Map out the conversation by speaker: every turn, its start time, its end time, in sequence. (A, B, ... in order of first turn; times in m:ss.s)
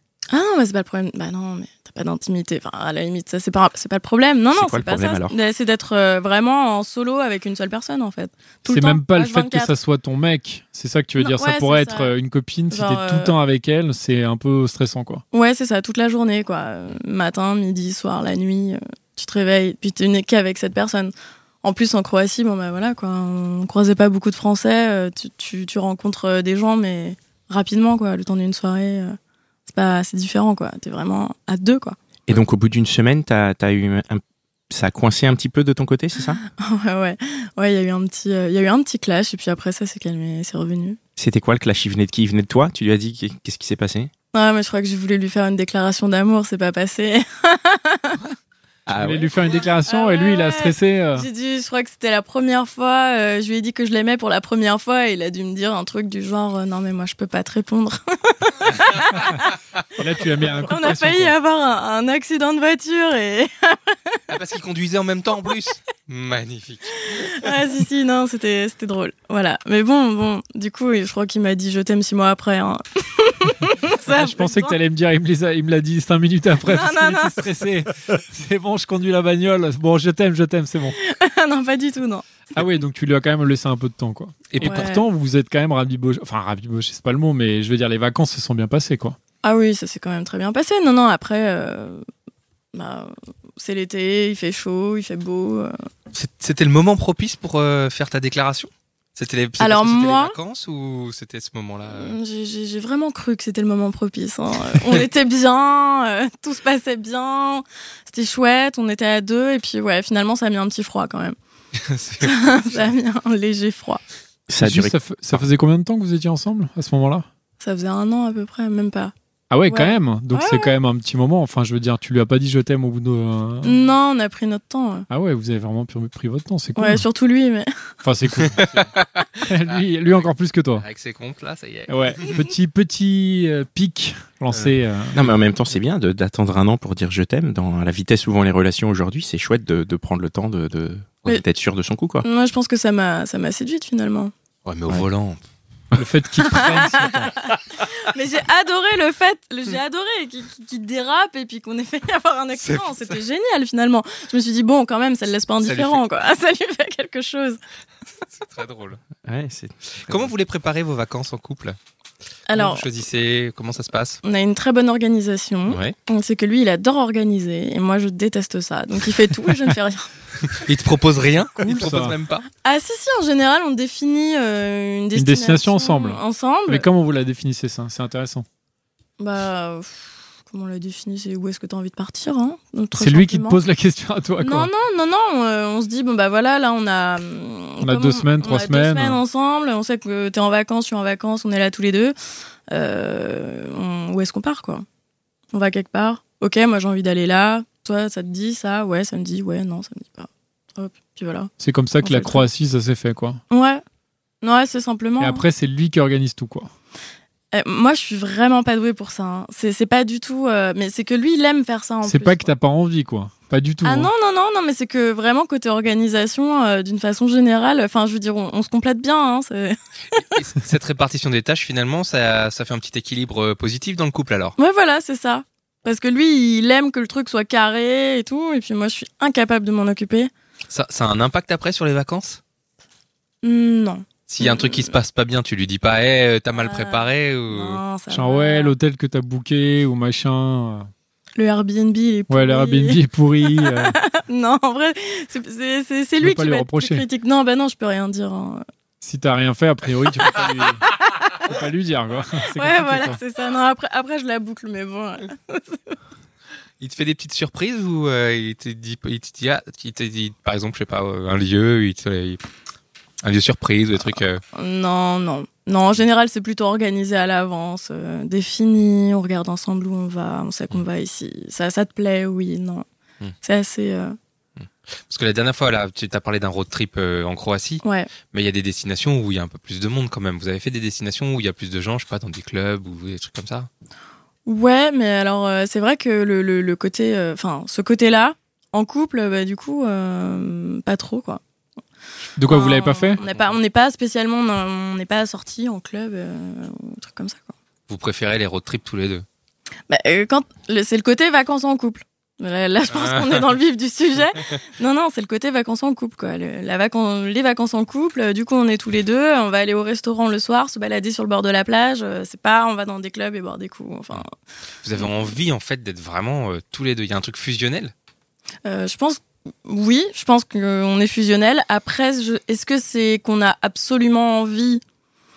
0:00.3-0:09.7 A
0:04.5-0:05.4 B
0:08.7-0:15.2 C
0:11.2-0:12.1 A
0:12.7-0:13.4 A
0:15.3-0:32.0 A
0:32.3-0:36.4 B
0:36.5-0:41.0 A
0:41.2-0:44.1 B
0:44.3-0:48.2 A
0:48.9-0:49.3 B
0:48.9-0:51.3 C
0:49.9-0:59.4 A
1:00.0-1:01.3 C
1:00.6-1:04.2 A
1:04.3-1:07.5 D
1:07.2-1:14.8 A
1:14.1-1:21.0 C
1:16.6-1:17.5 A
1:21.0-1:22.2 A
1:22.6-1:29.2 C
1:24.5-1:24.9 D
1:24.6-1:25.0 A
1:29.4-1:32.1 A
1:32.7-1:35.8 A
1:36.1-1:42.2 D
1:39.6-1:40.4 A
1:41.9-1:51.4 A
1:51.8-1:52.9 D
1:52.2-1:54.0 A
1:54.5-1:55.0 B
1:54.6-1:57.3 C
1:57.6-1:59.1 A
1:59.5-2:03.8 C
1:59.7-2:00.8 A
2:03.6-2:05.1 A
2:05.1-2:07.0 C
2:06.8-2:07.7 A
2:08.0-2:08.7 C
2:08.6-2:12.3 D
2:09.4-2:10.8 C
2:11.9-2:15.2 C
2:14.5-2:15.3 D
2:15.1-2:22.2 B
2:22.2-2:24.3 A
2:24.6-2:25.4 D
2:25.9-2:27.3 C
2:26.4-2:37.6 A
2:32.6-2:33.2 D
2:35.6-2:36.0 D
2:38.3-2:39.0 D
2:39.2-2:40.3 B
2:39.9-2:41.8 D
2:42.5-2:42.8 A
2:42.5-2:44.2 D
2:44.2-2:50.1 A
2:45.7-2:46.0 B
2:50.5-2:52.5 D
2:51.6-2:52.2 C
2:52.6-2:56.9 A
2:55.2-2:58.5 C
2:59.2-3:03.6 A
3:02.9-3:04.7 C
3:04.4-3:12.2 A
3:07.8-3:09.2 C
3:12.7-3:14.8 A
3:15.5-3:21.5 A
3:21.6-3:23.4 C
3:22.0-3:22.4 A
3:23.5-3:23.8 A
3:24.4-3:25.4 A
3:25.2-3:26.7 C
3:27.5-3:32.5 A
3:32.0-3:34.1 C
3:33.8-3:39.8 A
3:40.3-3:44.6 D
3:44.6-3:50.3 A
3:50.7-3:52.4 D
3:53.4-3:54.9 A
3:54.3-3:57.8 D
3:56.6-3:58.7 A
3:58.1-4:00.9 C
4:01.4-4:08.6 A
4:02.3-4:04.0 C
4:06.2-4:07.0 C
4:09.0-4:10.8 C
4:11.4-4:13.2 C
4:12.6-4:16.0 A
4:16.8-4:22.4 D
4:23.2-4:24.4 D
4:24.5-4:32.8 A
4:33.4-4:34.2 A
4:34.6-4:43.7 D
4:37.8-4:38.1 A
4:44.5-4:51.4 A
4:52.4-4:53.2 C
4:52.5-4:57.5 A
4:53.2-4:53.6 D
4:57.9-4:59.2 D
4:59.9-5:14.3 A
5:02.9-5:03.5 D
5:14.8-5:17.9 D
5:18.6-5:24.8 A